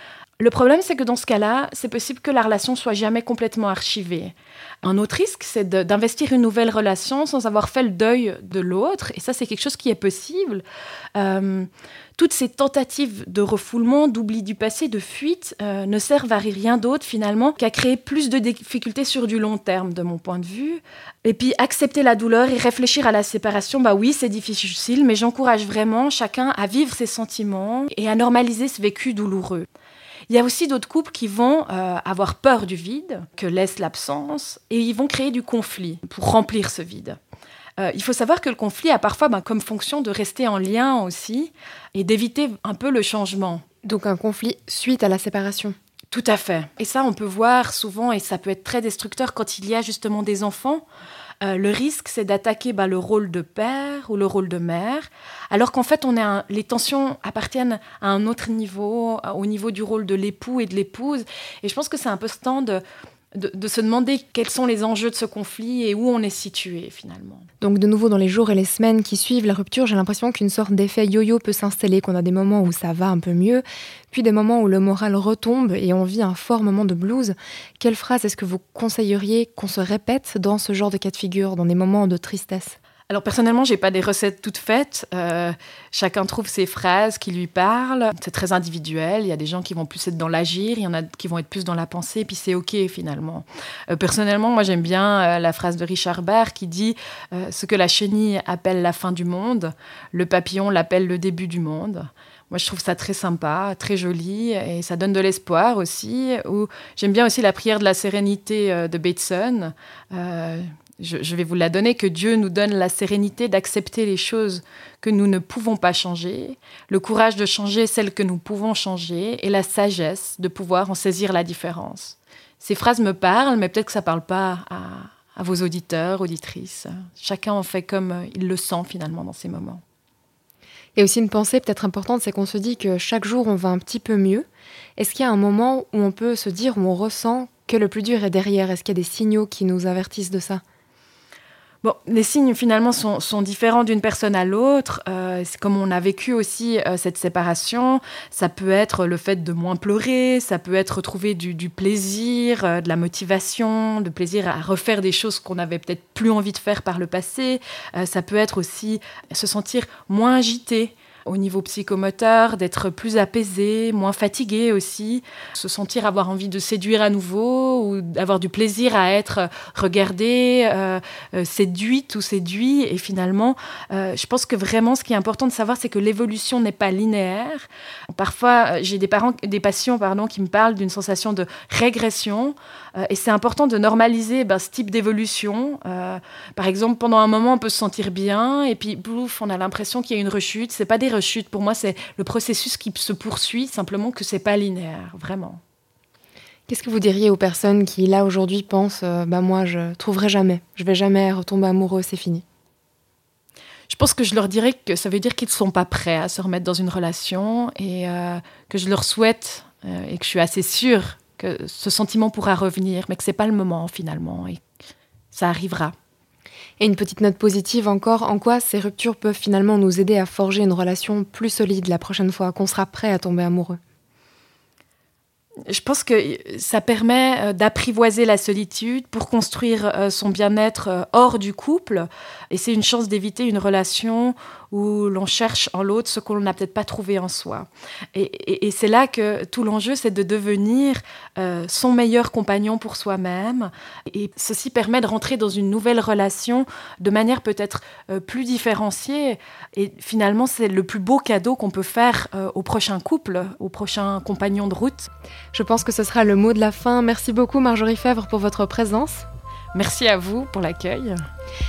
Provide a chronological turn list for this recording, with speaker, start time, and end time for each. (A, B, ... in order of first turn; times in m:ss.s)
0:00.4-0:10.6 A
0:11.2-0:29.7 A
0:30.3-0:37.2 A
0:37.8-0:43.6 A
0:43.8-0:45.8 B
0:46.1-0:50.8 A
0:51.4-1:02.8 A
1:03.3-1:07.5 A
1:07.6-1:22.8 B
1:23.1-2:09.8 A
2:11.0-2:14.5 B
2:15.0-2:20.6 B
2:21.8-3:15.6 A
3:16.7-3:22.4 B
3:23.9-3:34.6 A
3:35.3-3:36.0 A
3:36.8-3:43.8 B
3:45.7-4:15.1 A
4:15.5-4:19.3 B
4:19.7-4:21.2 A